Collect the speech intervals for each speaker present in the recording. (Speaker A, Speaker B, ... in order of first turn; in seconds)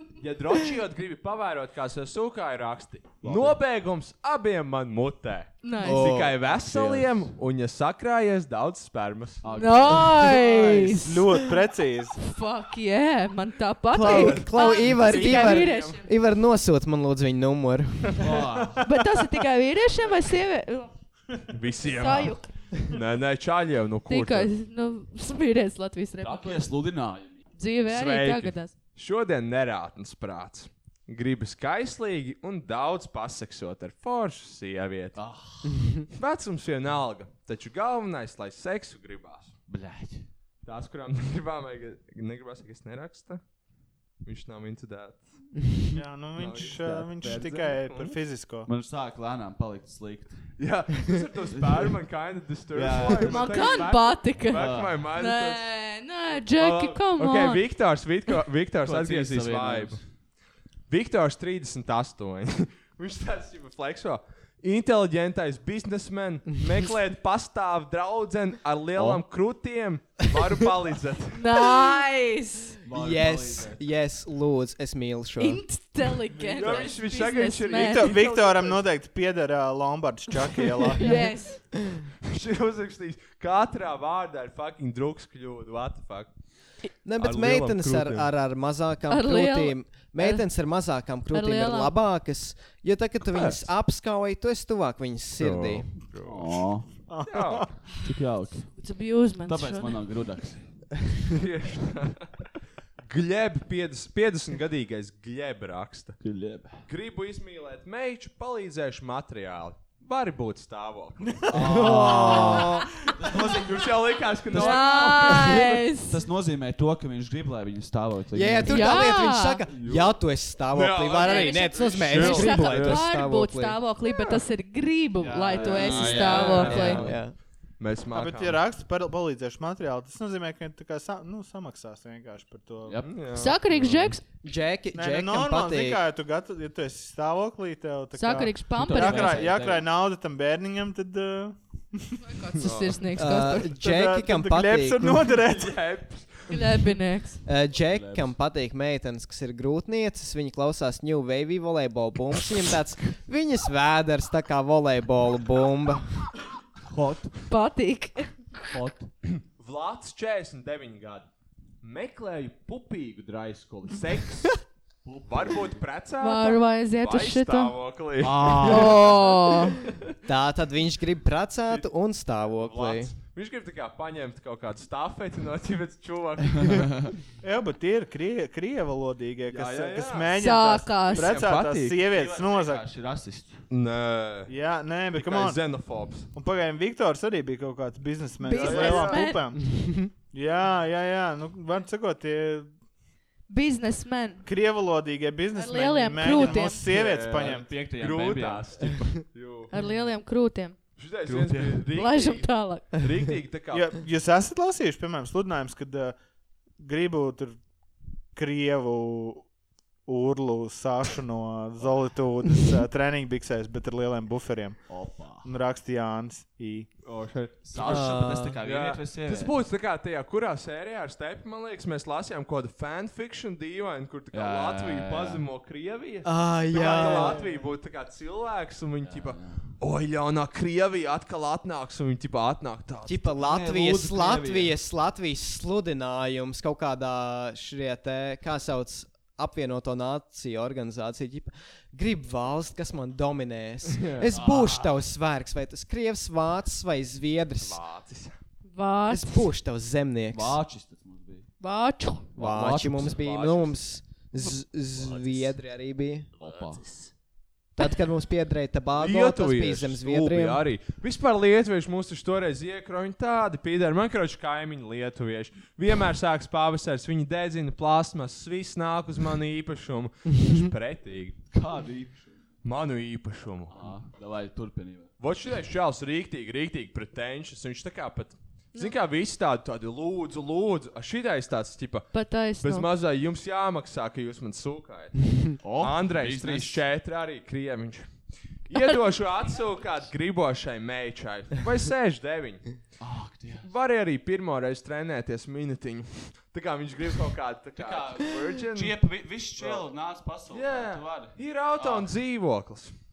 Speaker A: 0.2-9.4, 14.0-16.0, 21.5-24.5, 27.9-35.2, 36.1-39.5, 40.6-43.4, 44.2-45.4, 46.4-48.2, 50.6-55.7, 56.5-60.0, 60.9-71.4, 76.4-78.8, 82.2-86.3, 87.2-88.3, 95.4-96.6, 97.2-97.7, 101.3-102.3, 103.1-106.2, 106.8-112.5, 113.3-115.7, 119.7-120.2, 120.7-123.0, 125.6-127.2, 127.8-128.6, 133.0-133.9, 142.6-143.0, 145.4-146.6, 159.3-161.3, 161.8-164.6, 165.3-169.1, 172.6-177.1, 179.5-180.3, 181.1-182.0, 183.7-184.5, 185.1-186.3, 188.5-189.2, 196.2-199.7, 201.0-203.9, 217.0-233.3, 243.9-244.3, 247.6-248.4, 253.2-253.7, 258.9-271.4, 272.6-273.9, 275.2-288.1, 288.7-292.8, 293.6-299.0, 299.6-299.8, 300.5-302.9
Speaker B: 3.2-3.6, 6.4-7.3, 9.4-10.8, 18.2-18.8, 26.2-27.4, 35.1-36.0, 39.7-40.3, 46.8-47.4, 48.6-50.5, 51.5-51.9, 52.7-53.8, 54.5-55.1, 58.8-60.0, 69.0-69.2, 72.8-73.8, 96.2-96.9, 97.9-98.7, 99.4-100.8, 106.2-106.8, 111.5-113.9, 114.5-119.2, 125.2-127.2, 132.8-133.1, 138.8-139.8, 147.9-148.3, 156.9-157.4, 158.7-159.1, 165.0-165.8, 168.2-169.1, 176.7-177.1, 182.1-183.6, 197.1-198.9, 201.2-201.9, 214.9-215.5, 217.6-219.5, 224.3-225.4, 229.0-229.8, 233.4-234.7, 244.2-245.0, 250.3-251.5, 252.3-253.6, 255.0-255.5, 256.4-257.1, 271.5-272.4, 273.7-275.1, 285.6-286.8, 293.0-293.7, 297.8-302.1
Speaker C: 5.6-6.1, 9.6-11.3, 12.2-16.1, 18.8-20.9, 21.9-22.5, 24.1-26.7, 27.6-28.7, 53.2-57.6, 71.3-72.8, 75.4-78.1, 81.0-81.6, 89.1-90.4, 91.3-91.9, 98.8-100.0, 114.5-116.2, 118.7-119.6, 121.2-127.0, 133.3-134.2, 138.1-139.5, 142.2-143.7, 146.5-147.4, 157.5-158.7, 166.2-167.7, 168.6-169.8, 180.4-181.3, 188.4-189.4, 193.5-194.4, 195.5-196.8, 199.7-200.8, 201.9-202.9, 248.7-249.5, 251.6-252.3, 282.1-282.9
Speaker D: 5.8-6.4, 13.9-18.2, 72.9-75.6, 87.0-95.8, 111.5-112.8, 118.3-123.8, 126.7-127.3, 134.4-136.0, 143.2-145.2, 147.4-156.0, 170.2-173.1, 189.7-190.1, 217.8-218.6, 226.2-227.4, 233.1-247.8, 249.1-250.6, 252.4-256.3, 257.8-260.6
Speaker E: 10.3-12.2, 45.9-48.7, 76.5-76.8, 77.8-81.2, 97.1-97.7, 128.1-133.0, 134.9-142.2, 143.7-145.8, 177.4-182.9, 184.5-185.6, 186.3-189.8, 190.3-192.7, 194.4-197.7, 203.7-206.2, 206.8-207.6, 208.3-209.5, 210.1-216.9